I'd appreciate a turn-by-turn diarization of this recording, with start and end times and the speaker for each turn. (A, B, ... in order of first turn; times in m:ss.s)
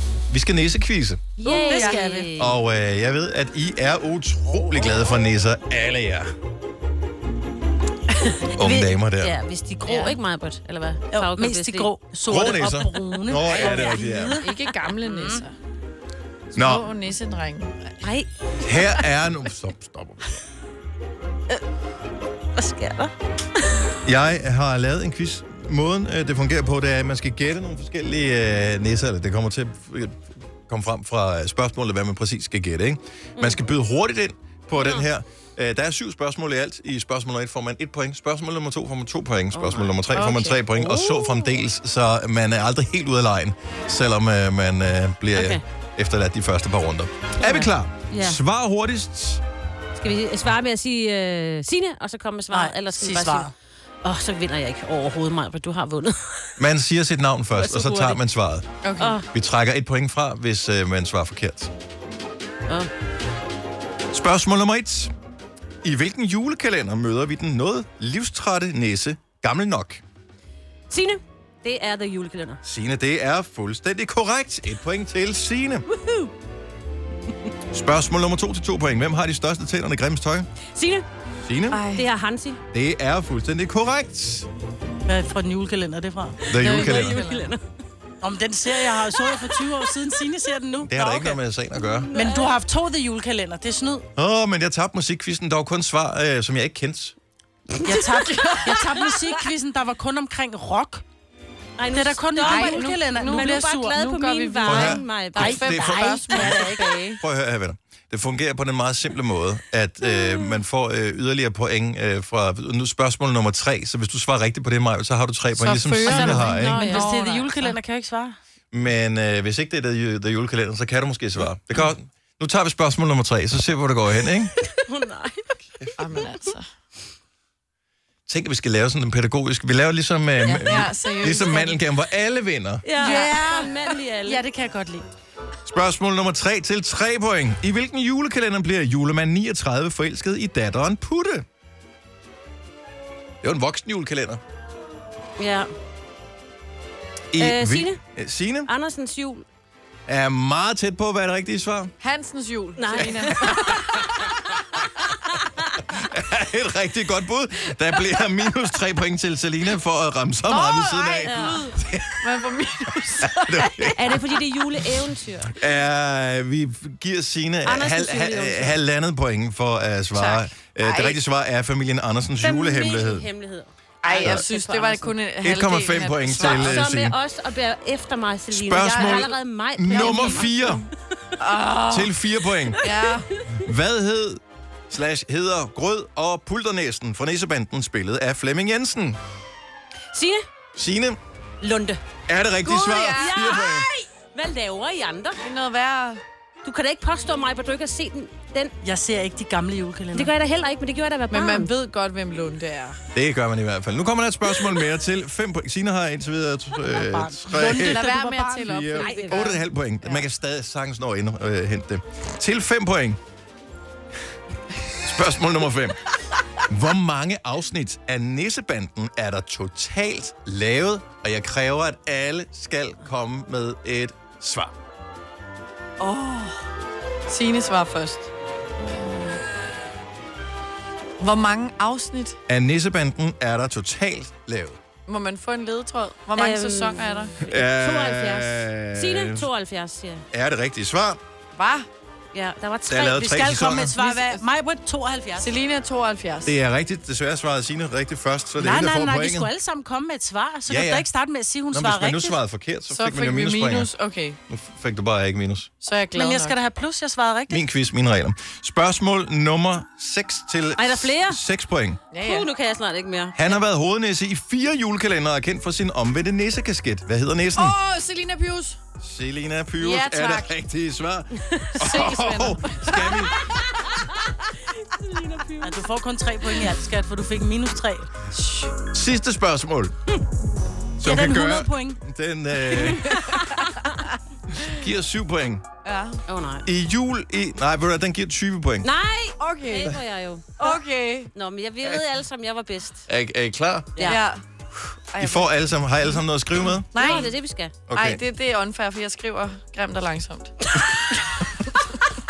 0:00.3-0:01.2 A
0:01.4-0:02.3 B
0:01.4-0:02.6 C
0:01.7-0:02.0 D
0:02.4-0:06.3 A
0:08.5-0:11.9 C
0:08.5-0:09.3 A
0:09.8-0:10.1 B
0:11.1-0:15.4 B
0:12.3-0:14.4 A
0:13.5-0:15.6 D
0:13.6-0:14.0 C
0:16.5-0:17.9 D
0:16.5-0:17.0 A
0:18.0-0:19.1 C
0:18.6-0:20.4 A
0:22.5-0:23.1 C
0:24.0-0:49.4 A
0:34.8-0:35.0 C
0:39.5-0:40.0 C
0:40.1-0:40.6 D
0:40.8-0:41.6 C
0:45.3-0:45.6 C
0:47.4-0:48.4 C
0:49.9-0:53.5 C
0:52.5-0:53.5 B
0:54.0-0:56.6 C
0:56.6-0:58.7 A
0:57.5-0:58.2 C
0:58.8-0:59.2 D
0:59.0-0:59.3 C
0:59.3-1:01.7 A
1:04.1-1:05.1 A
1:05.8-1:10.0 A
1:10.9-1:12.6 C
1:12.6-1:15.8 A
1:15.9-1:16.3 C
1:17.7-1:20.5 A
1:20.7-1:21.1 C
1:21.4-1:21.8 A
1:21.7-1:22.1 D
1:21.9-1:22.6 C
1:22.7-1:24.5 A
1:25.0-1:26.5 B
1:26.5-1:27.2 A
1:26.5-1:27.6 C
1:26.6-1:27.5 D
1:28.2-1:31.4 B
1:29.3-1:29.6 C
1:30.8-1:32.1 A
1:31.8-1:32.6 C
1:32.1-1:34.0 B
1:34.2-1:37.2 A
1:37.7-1:38.1 C
1:37.8-1:41.0 B
1:38.2-1:39.0 D
1:41.8-1:46.8 C
1:41.9-1:44.2 B
1:42.4-1:47.2 D
1:44.6-1:56.8 A
1:45.6-1:47.0 B
1:55.6-1:57.8 D
1:56.0-1:57.2 C
1:56.1-1:58.4 B
1:58.7-2:04.5 A
2:04.7-2:05.5 C
2:05.8-2:06.2 A
2:06.0-2:06.7 D
2:08.3-2:12.9 A
2:10.4-2:11.8 D
2:12.8-2:14.5 C
2:13.0-2:15.1 B
2:15.6-2:21.4 A
2:23.4-2:24.4 A
2:25.4-2:25.7 C
2:27.3-2:28.7 A
2:27.4-2:28.0 C
2:28.6-2:29.4 C
2:30.1-2:31.9 A
2:32.0-2:34.1 D
2:32.8-2:34.0 C
2:33.3-2:34.0 A
2:35.0-2:35.8 C
2:35.8-2:42.3 A
2:40.5-2:44.0 D
2:41.2-2:41.6 C
2:43.2-2:44.3 A
2:43.9-2:45.6 C
2:45.5-2:53.3 A
2:47.6-2:48.8 C
2:50.2-2:51.2 D
2:52.4-2:55.2 C
2:54.0-2:56.8 D
2:54.2-2:54.4 A
2:55.4-2:57.2 A
2:56.3-3:01.4 C
2:58.5-3:00.8 A
2:58.8-2:59.4 D
2:59.9-3:00.4 D
3:01.4-3:02.2 D
3:01.9-3:02.9 A
3:02.8-3:03.3 D
3:03.0-3:03.6 C
3:03.5-3:09.2 A
3:10.1-3:10.4 C
3:10.8-3:11.2 A
3:11.6-3:12.0 C
3:12.3-3:13.9 A
3:12.6-3:13.4 D
3:13.1-3:15.4 C
3:15.4-3:16.2 D
3:16.6-3:18.7 C
3:18.8-3:20.3 B
3:20.1-3:21.7 C
3:21.3-3:23.0 D
3:23.1-3:28.1 A
3:26.8-3:28.9 B
3:27.8-3:29.6 D
3:28.6-3:33.2 A
3:28.9-3:29.6 C
3:34.9-3:36.0 A
3:36.6-3:44.7 A
3:46.0-3:46.6 D
3:47.3-3:48.3 D
3:51.2-3:52.4 D
3:52.5-3:54.8 A
3:55.1-3:57.3 D
3:56.3-4:00.2 C
3:57.4-3:59.5 A
4:00.3-4:01.2 A
4:01.6-4:01.9 D
4:02.3-4:03.2 C
4:02.9-4:04.0 A
4:03.0-4:05.6 B
4:04.0-4:04.4 D
4:05.4-4:06.6 D
4:06.4-4:09.5 A
4:08.6-4:12.4 B
4:10.7-4:11.1 A
4:11.7-4:13.9 A
4:12.9-4:14.4 D
4:14.5-4:15.7 A
4:15.8-4:16.6 D
4:16.1-4:17.6 B
4:17.5-4:22.0 A
4:20.8-4:21.4 C
4:22.1-4:22.5 D
4:22.2-4:23.6 C
4:23.4-4:27.8 A
4:27.6-4:28.8 D
4:29.0-4:33.5 A
4:29.8-4:30.6 D
4:31.5-4:31.9 C
4:31.8-4:33.7 D
4:33.6-4:35.8 C
4:35.6-4:38.1 B
4:38.3-4:38.8 D
4:38.9-4:39.9 A
4:41.0-4:43.6 A
4:41.0-4:42.0 B
4:42.7-4:44.0 D
4:44.5-4:45.6 A
4:45.8-4:46.2 D
4:46.3-4:46.7 C
4:46.6-4:48.9 A
4:48.8-4:50.8 C
4:49.4-4:50.0 D
4:50.6-4:51.3 D
4:51.3-4:53.0 C
4:53.1-4:54.0 A
4:54.0-4:54.2 C
4:54.1-4:54.4 D
4:55.1-4:55.5 D
4:55.2-4:57.3 A
4:56.9-4:57.3 D
4:56.9-4:57.8 C
4:57.9-4:58.2 A
4:57.9-5:00.5 D